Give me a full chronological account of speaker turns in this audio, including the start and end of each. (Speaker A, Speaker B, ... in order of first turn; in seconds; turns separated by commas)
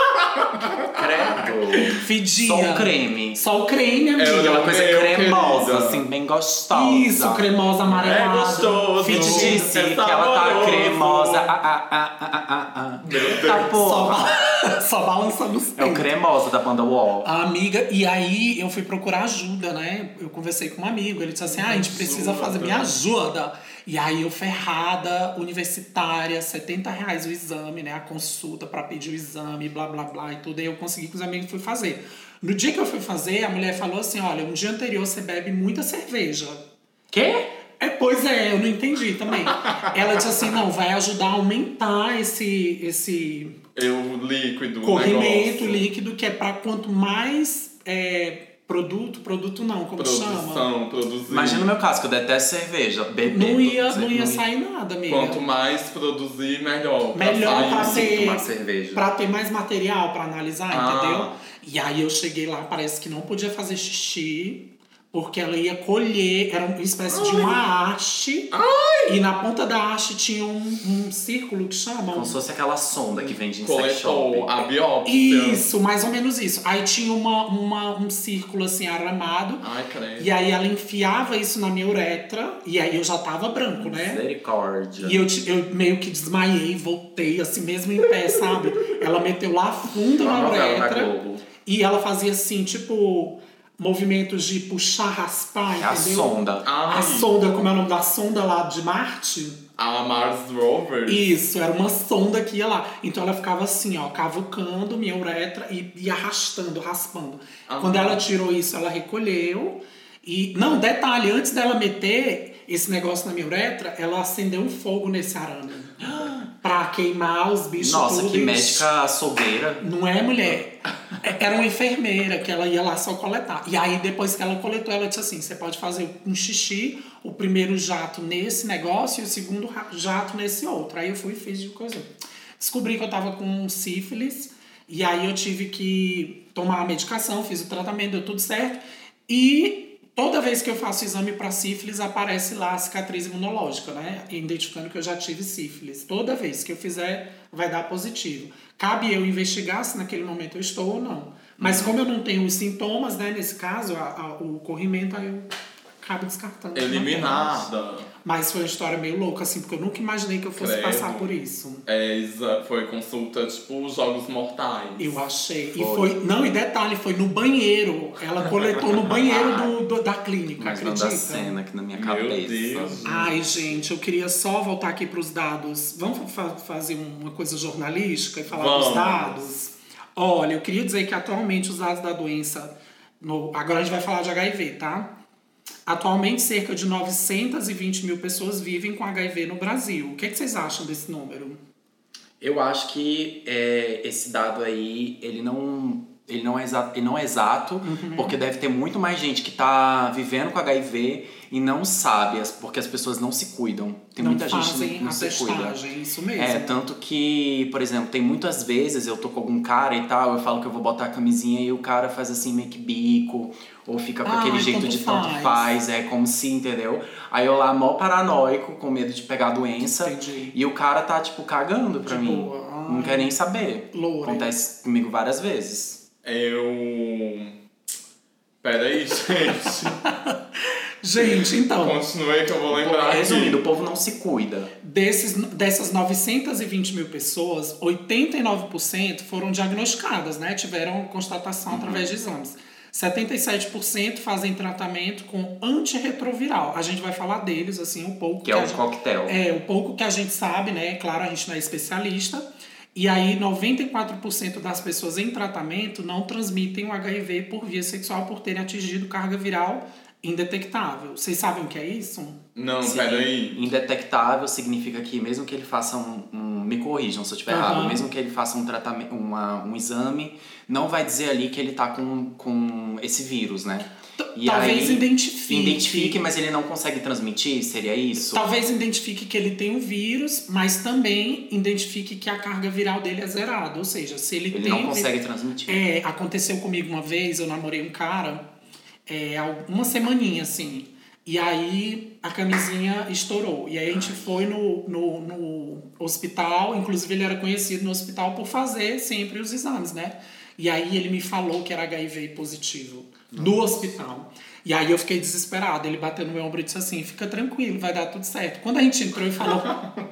Speaker A: 0.4-0.8, Speaker B: 0.9-3.4, Speaker C: 1.9-4.7, Speaker A: 4.2-6.0, Speaker B: 4.4-7.5, Speaker C: 6.7-9.8, Speaker A: 7.9-11.5, Speaker B: 9.1-14.2, Speaker C: 13.3-16.1, Speaker B: 15.8-17.3, Speaker C: 17.2-36.6, Speaker A: 21.5-23.0, Speaker B: 37.1-37.5, Speaker C: 37.8-43.6, Speaker A: 43.8-45.8, Speaker C: 44.8-50.7, Speaker A: 50.0-51.7, Speaker B: 51.3-54.4, Speaker C: 53.3-55.4, Speaker A: 55.1-58.2, Speaker C: 57.1-68.5, Speaker B: 57.4-59.0, Speaker A: 60.7-61.4, Speaker A: 67.1-67.6, Speaker A: 68.5-69.2, Speaker C: 69.1-72.4, Speaker B: 72.1-74.7, Speaker A: 73.6-75.7, Speaker C: 75.1-79.7, Speaker A: 79.6-80.3, Speaker C: 80.2-84.2, Speaker B: 83.7-85.3, Speaker C: 85.0-91.1, Speaker B: 90.2-91.5, Speaker C: 91.6-99.6, Speaker B: 95.8-96.7, Speaker A: 96.7-97.3, Speaker A: 99.8-101.3, Speaker C: 101.1-118.9, Speaker A: 107.7-108.2, Speaker B: 116.0-116.5, Speaker B: 117.8-119.8, Speaker C: 119.8-155.5, Speaker B: 151.6-151.9, Speaker C: 156.0-157.7, Speaker A: 156.8-158.1, Speaker C: 158.2-161.8, Speaker A: 160.6-161.3, Speaker A: 161.9-165.2, Speaker C: 165.0-171.6, Speaker B: 165.8-166.2, Speaker A: 168.9-169.8, Speaker B: 170.6-173.9, Speaker A: 171.9-173.1, Speaker C: 173.1-185.1, Speaker A: 178.5-179.4, Speaker C: 185.9-191.6, Speaker B: 192.4-205.8, Speaker C: 197.8-198.4, Speaker C: 204.2-206.8, Speaker B: 206.4-226.0, Speaker C: 214.2-215.7, Speaker C: 220.0-220.6, Speaker C: 222.1-223.3, Speaker C: 223.9-224.5, Speaker A: 226.2-227.6, Speaker A: 228.6-230.0, Speaker C: 230.0-232.0, Speaker A: 231.7-233.6, Speaker B: 232.7-234.7, Speaker C: 234.8-262.4, Speaker B: 241.7-242.1, Speaker B: 248.4-249.4, Speaker A: 262.6-263.7, Speaker B: 262.8-278.5, Speaker C: 267.5-268.0, Speaker C: 274.2-276.2, Speaker C: 278.2-285.1, Speaker B: 284.5-285.8, Speaker C: 285.7-288.5, Speaker C: 289.1-309.8, Speaker B: 293.9-294.4, Speaker B: 303.3-304.0